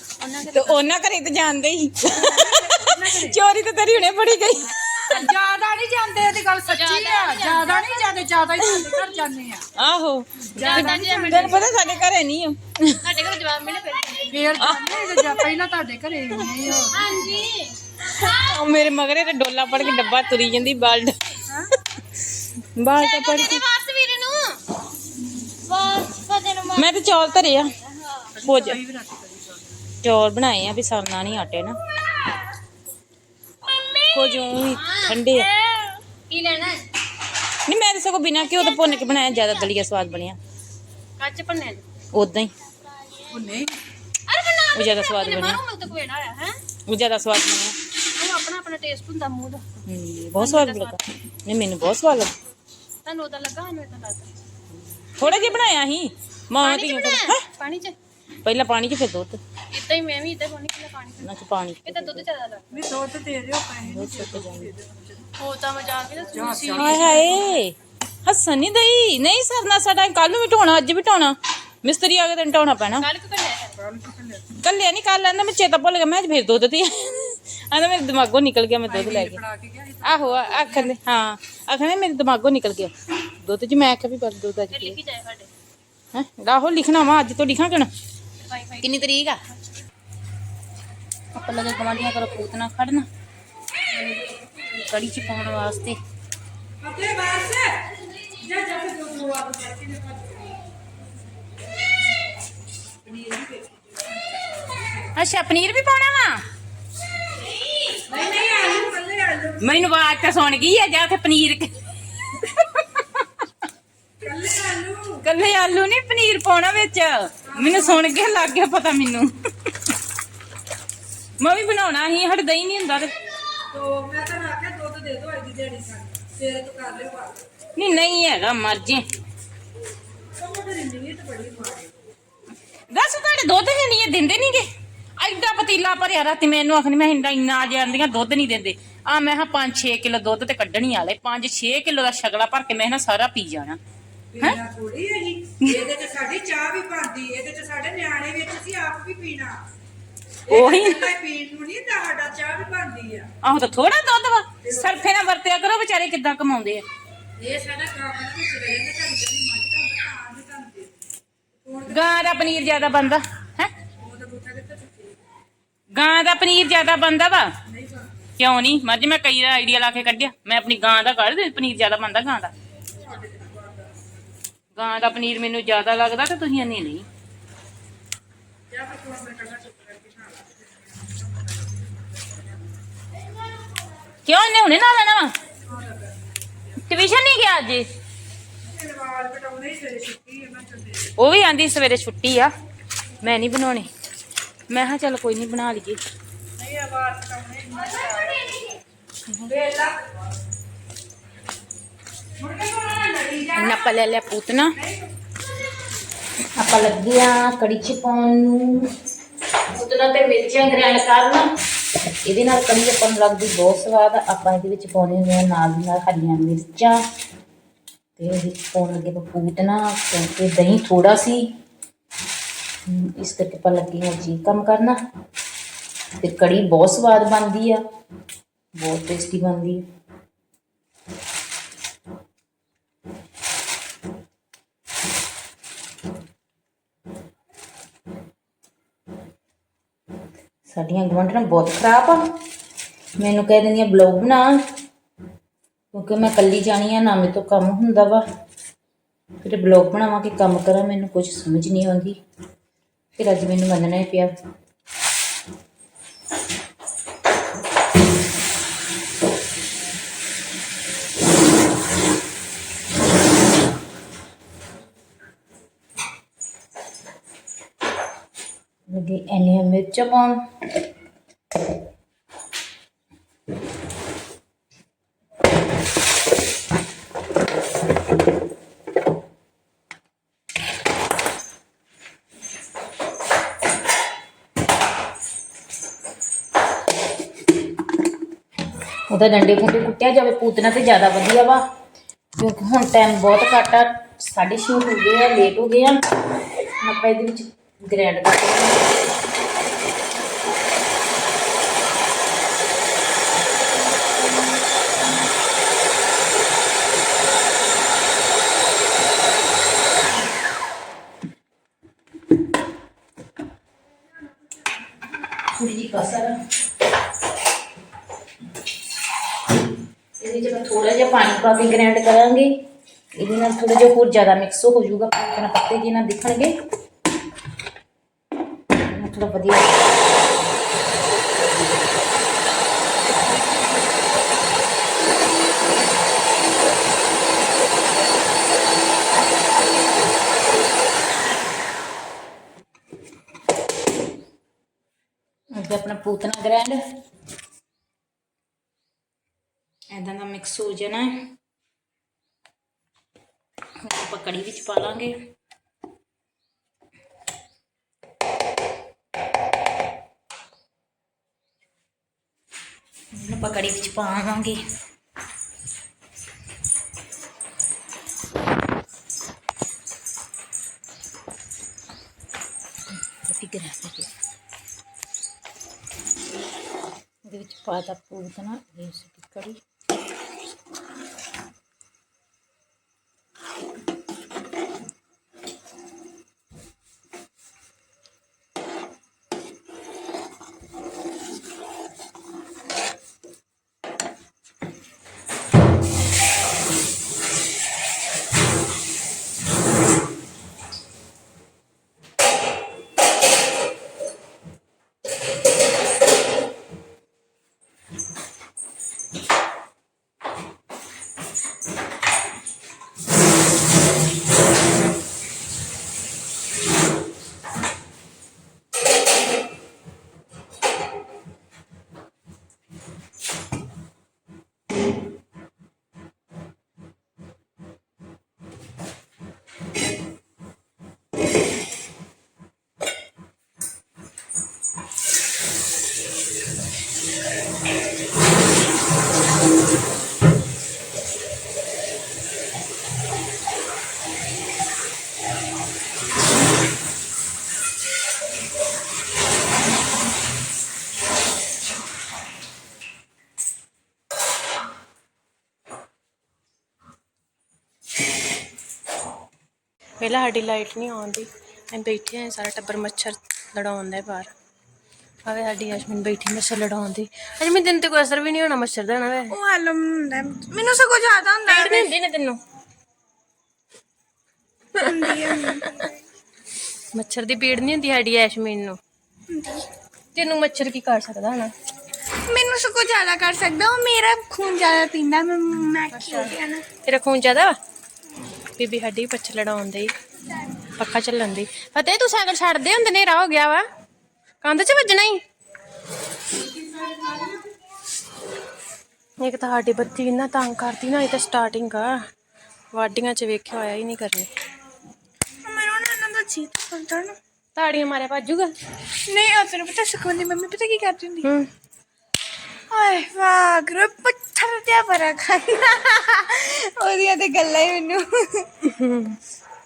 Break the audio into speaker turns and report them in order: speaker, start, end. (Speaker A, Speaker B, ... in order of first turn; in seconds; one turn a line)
Speaker A: 0.2-0.8
Speaker B: 0.5-5.3
Speaker C: 2.1-3.4
Speaker C: 5.1-9.7
Speaker A: 6.7-8.0
Speaker B: 9.8-13.0
Speaker C: 10.5-11.6
Speaker A: 10.6-11.7
Speaker A: 13.0-14.4
Speaker C: 14.3-17.1
Speaker B: 14.6-15.4
Speaker A: 16.8-17.8
Speaker B: 18.1-21.2
Speaker C: 21.5-21.7
Speaker B: 22.8-23.6
Speaker A: 23.0-24.6
Speaker D: 25.7-26.8
Speaker B: 26.7-27.8
Speaker C: 28.3-29.9
Speaker B: 28.4-28.8
Speaker B: 30.0-31.8
Speaker B: 34.1-35.5
Speaker A: 34.7-36.9
Speaker B: 37.7-40.4
Speaker A: 41.2-41.8
Speaker B: 42.1-42.5
Speaker C: 43.3-43.8
Speaker A: 44.3-46.6
Speaker B: 44.7-45.6
Speaker B: 46.9-47.8
Speaker A: 48.1-49.8
Speaker B: 49.9-52.4
Speaker A: 50.4-51.0
Speaker A: 53.0-54.3
Speaker B: 55.2-57.5
Speaker A: 56.6-58.0
Speaker B: 58.4-59.4
Speaker A: 59.7-61.3
Speaker B: 61.2-62.2
Speaker A: 61.9-62.7
Speaker C: 62.7-65.3
Speaker B: 63.9-64.7
Speaker A: 65.4-67.4
Speaker C: 66.2-67.6
Speaker B: 66.8-73.1
Speaker A: 73.0-73.8
Speaker C: 73.8-74.5
Speaker B: 74.6-79.4
Speaker C: 78.8-81.0
Speaker B: 80.0-85.0
Speaker A: 84.7-85.5
Speaker B: 86.1-87.9
Speaker A: 88.4-88.9
Speaker B: 88.8-89.4
Speaker B: 91.3-93.1
Speaker C: 93.9-94.4
Speaker B: 94.9-96.0
Speaker C: 96.8-100.6
Speaker C: 103.0-105.1
Speaker B: 105.2-106.4
Speaker C: 108.1-109.7
Speaker B: 109.6-111.8
Speaker B: 112.3-113.2
Speaker C: 114.2-115.2
Speaker B: 115.2-119.3
Speaker C: 117.5-118.3
Speaker B: 121.4-123.1
Speaker C: 123.7-127.5
Speaker B: 127.8-129.1
Speaker C: 130.4-131.9
Speaker B: 132.9-134.7
Speaker B: 135.2-143.8
Speaker C: 144.3-149.6
Speaker C: 150.5-153.3
Speaker B: 150.5-151.1
Speaker B: 153.4-156.8
Speaker C: 154.6-155.0
Speaker C: 157.4-161.0
Speaker C: 161.6-163.0
Speaker B: 161.9-163.7
Speaker C: 164.0-165.2
Speaker B: 165.9-167.6
Speaker C: 167.7-168.3
Speaker B: 168.4-172.5
Speaker C: 172.9-174.1
Speaker B: 174.8-177.1
Speaker C: 178.7-182.7
Speaker B: 184.2-185.3
Speaker C: 185.6-186.8
Speaker B: 186.8-187.9
Speaker C: 188.7-191.2
Speaker B: 191.2-192.5
Speaker B: 193.2-193.9
Speaker B: 194.7-196.0
Speaker C: 196.6-198.6
Speaker C: 199.3-200.1
Speaker C: 202.4-203.9
Speaker B: 203.6-204.8
Speaker C: 204.8-205.1
Speaker B: 206.6-208.9
Speaker B: 209.7-211.5
Speaker B: 212.2-217.0
Speaker B: 218.2-221.5
Speaker B: 222.9-225.0
Speaker B: 226.2-227.8
Speaker B: 228.8-229.8
Speaker B: 240.7-242.3
Speaker B: 243.2-244.6
Speaker B: 245.9-248.2
Speaker B: 249.4-252.2
Speaker B: 253.2-254.3
Speaker B: 268.9-270.4
Speaker B: 289.1-291.6
Speaker B: 292.4-296.0
Speaker B: 296.8-298.9
Speaker B: 315.6-316.4
Speaker B: 320.2-322.6
Speaker B: 323.2-326.6
Speaker B: 328.9-329.8
Speaker B: 345.5-346.8
Speaker B: 349.9-351.3
Speaker B: 353.8-355.2
Speaker B: 363.1-364.6
Speaker B: 373.1-374.1
Speaker B: 377.2-379.6
Speaker A: 460.0-464.3
Speaker A: 465.2-469.4
Speaker D: 469.3-471.9
Speaker A: 471.5-472.4
Speaker D: 474.8-475.9
Speaker A: 476.9-478.8
Speaker D: 479.3-479.6
Speaker A: 480.1-481.5
Speaker D: 482.2-486.7
Speaker A: 485.9-487.6
Speaker A: 488.6-489.9
Speaker A: 490.8-493.6
Speaker A: 494.4-495.2
Speaker A: 499.2-502.0
Speaker A: 502.7-504.3
Speaker D: 505.4-507.2
Speaker A: 507.5-508.5
Speaker D: 508.9-511.3
Speaker A: 511.2-511.5
Speaker D: 512.7-518.5
Speaker A: 518.6-519.2